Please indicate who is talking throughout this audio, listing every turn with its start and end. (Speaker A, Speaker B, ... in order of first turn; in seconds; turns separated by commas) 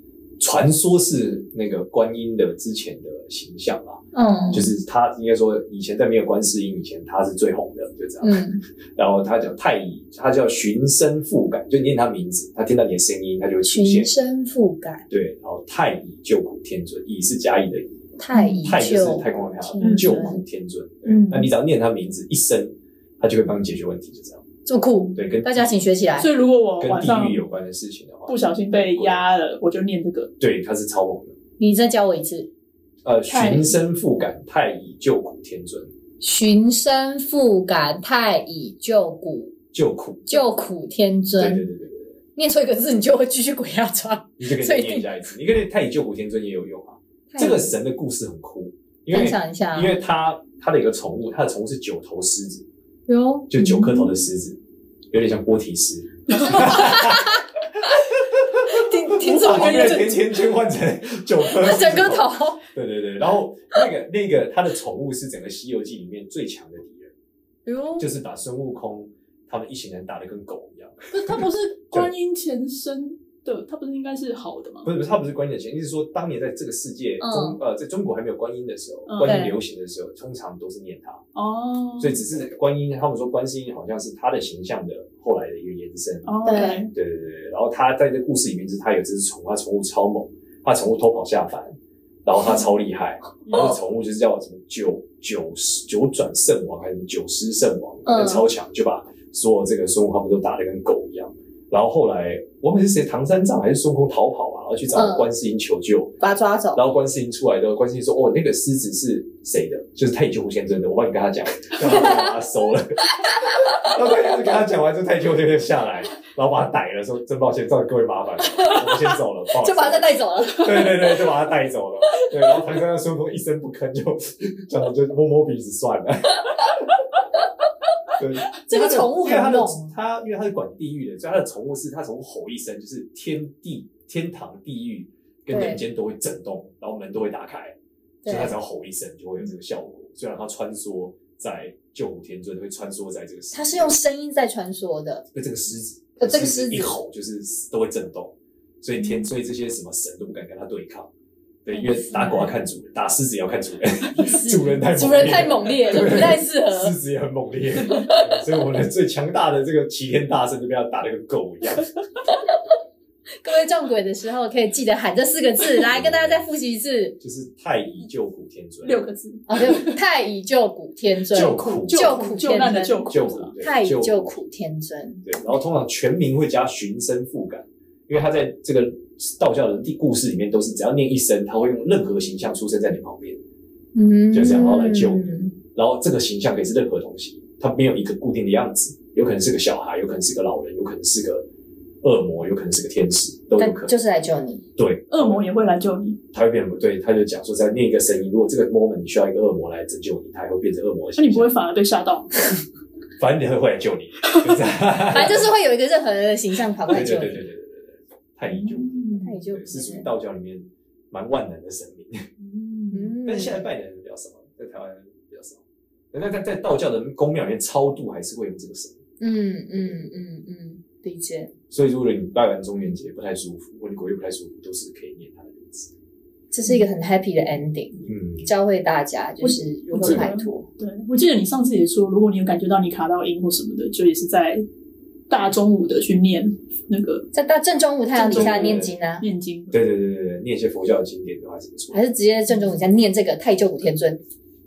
Speaker A: 0.4-4.0, Speaker B: 4.1-4.7, Speaker A: 4.5-8.4, Speaker B: 8.2-8.6, Speaker A: 8.9-14.1, Speaker B: 13.6-15.0, Speaker A: 15.1-18.1, Speaker B: 18.2-20.4, Speaker C: 18.3-18.6, Speaker A: 18.6-24.4, Speaker C: 19.8-20.2, Speaker C: 21.1-21.5, Speaker B: 24.6-26.3, Speaker A: 25.1-25.7, Speaker C: 26.2-27.4, Speaker A: 26.8-29.2, Speaker C: 28.3-30.3, Speaker A: 30.4-31.4, Speaker B: 31.6-32.5, Speaker A: 33.0-35.9, Speaker C: 33.3-33.8, Speaker B: 36.2-39.5, Speaker A: 39.7-40.4, Speaker B: 40.3-41.6, Speaker A: 41.4-42.2, Speaker B: 42.4-45.1, Speaker A: 44.4-52.6, Speaker B: 47.3-47.7, Speaker B: 49.1-49.9, Speaker B: 53.1-53.5, Speaker A: 53.5-54.6, Speaker C: 53.6-54.1, Speaker A: 55.1-67.1, Speaker B: 56.5-57.4, Speaker B: 58.5-60.1, Speaker C: 59.2-60.3, Speaker B: 61.5-62.6, Speaker B: 67.7-68.1, Speaker A: 68.0-72.1, Speaker C: 71.1-74.9, Speaker A: 74.8-81.2, Speaker B: 77.2-77.6, Speaker C: 79.1-79.4, Speaker B: 79.2-79.5, Speaker C: 81.3-82.2, Speaker A: 82.0-106.1, Speaker C: 86.2-86.9, Speaker B: 86.4-86.8, Speaker C: 93.4-93.8, Speaker B: 98.0-98.4, Speaker B: 104.9-105.3, Speaker B: 106.2-106.8, Speaker A: 106.7-126.9, Speaker B: 111.8-112.3, Speaker B: 118.4-121.2, Speaker A: 128.1-143.9, Speaker B: 128.6-129.9, Speaker B: 135.5-135.8, Speaker B: 138.2-138.5, Speaker B: 143.5-145.2, Speaker A: 145.3-151.1, Speaker B: 146.2-146.9, Speaker C: 149.0-149.2, Speaker A: 151.6-161.9, Speaker B: 151.8-152.5, Speaker B: 154.1-156.9, Speaker B: 157.9-158.2, Speaker B: 163.4-167.2, Speaker A: 165.9-166.4, Speaker A: 167.2-169.1, Speaker C: 168.8-170.0, Speaker B: 169.5-173.0, Speaker A: 171.3-172.2, Speaker C: 171.3-173.5, Speaker A: 173.1-174.3, Speaker B: 173.6-175.2, Speaker A: 175.2-183.4, Speaker B: 183.9-185.5, Speaker A: 184.3-191.4, Speaker A: 192.0-193.9, Speaker B: 193.6-194.6, Speaker A: 194.8-195.5, Speaker C: 195.1-196.2, Speaker A: 196.3-201.5, Speaker C: 201.2-202.3, Speaker A: 203.2-205.5, Speaker C: 204.3-204.6, Speaker B: 205.1-207.4, Speaker A: 206.9-212.3, Speaker C: 208.4-209.4, Speaker B: 209.2-210.1, Speaker C: 212.4-213.1, Speaker B: 212.9-213.6, Speaker A: 213.2-215.6, Speaker A: 216.1-219.0, Speaker B: 219.2-221.5, Speaker A: 221.7-225.9, Speaker B: 226.5-230.7, Speaker A: 228.0-228.5, Speaker C: 229.4-234.6, Speaker A: 230.0-230.3, Speaker C: 235.3-237.2, Speaker B: 237.3-239.2, Speaker C: 238.1-239.7, Speaker A: 238.3-238.9, Speaker A: 239.7-242.0, Speaker B: 241.9-244.2